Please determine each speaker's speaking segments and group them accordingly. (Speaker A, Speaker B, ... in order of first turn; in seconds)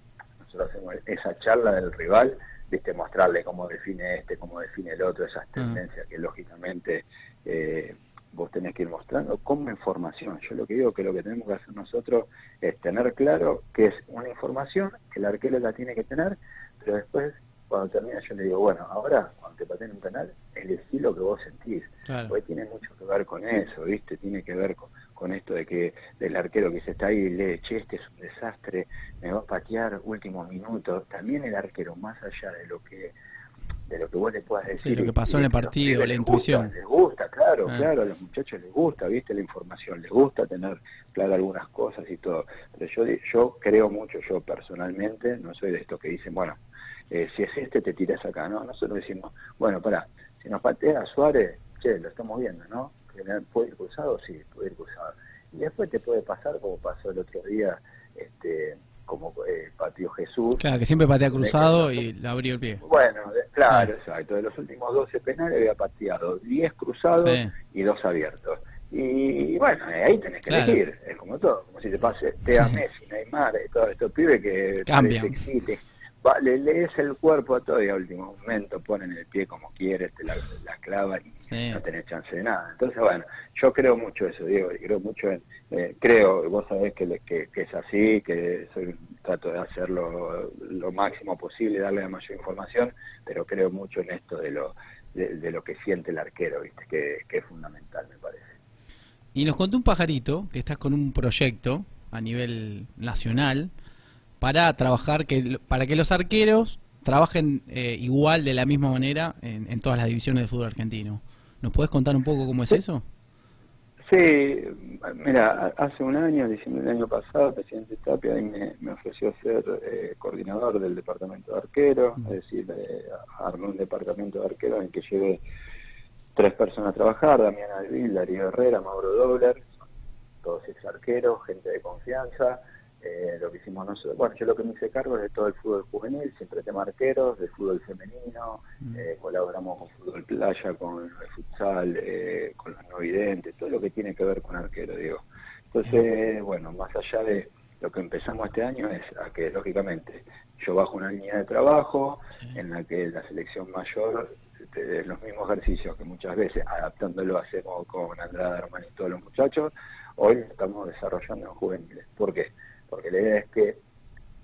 Speaker A: 0.4-33.1, 33.9-46.6, 47.1-60.6, 61.3-62.0, 62.8-98.5, 114.1-125.4, 126.4-129.8, 130.4-163.8
Speaker B: 22.1-22.4, 34.8-36.7, 60.6-62.8, 67.2-67.5, 70.5-70.8, 74.9-75.4, 81.5-81.8, 99.3-103.7, 104.4-113.0